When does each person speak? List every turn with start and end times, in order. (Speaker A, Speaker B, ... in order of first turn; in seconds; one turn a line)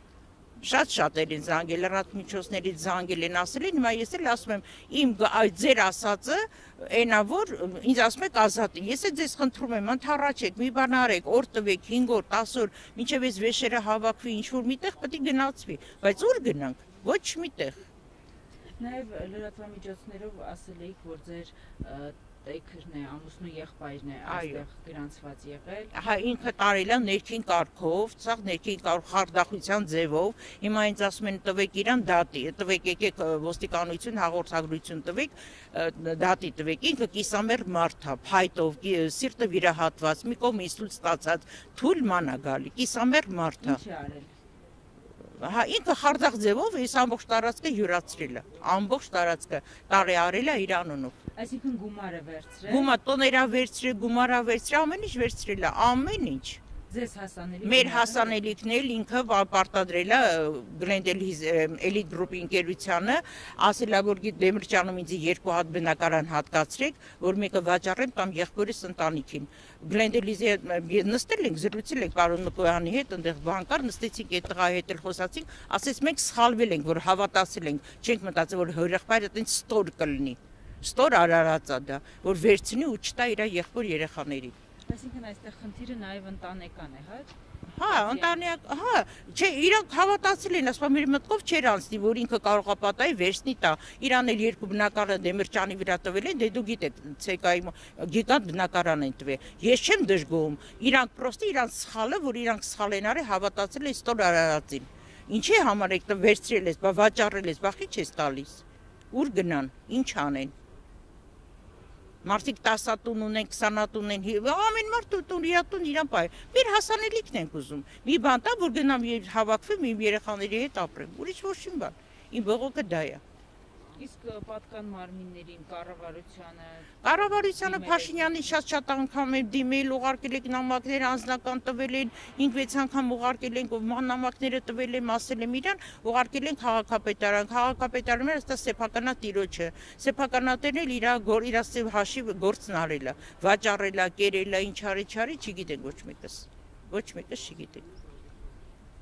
Speaker A: 0.6-17.8
Speaker B: 18.8-25.9
Speaker A: 24.2-24.6
Speaker A: 25.9-43.8
Speaker B: 43.6-44.3
Speaker A: 45.3-51.2
Speaker B: 51.4-52.9
Speaker A: 52.7-56.6
Speaker B: 56.9-58.3
Speaker A: 57.6-84.5
Speaker B: 84.9-87.3
Speaker A: 87.7-110.5
Speaker B: 87.9-88.4
Speaker A: 112.2-123.2
Speaker B: 124.0-128.5
Speaker A: 127.0-147.9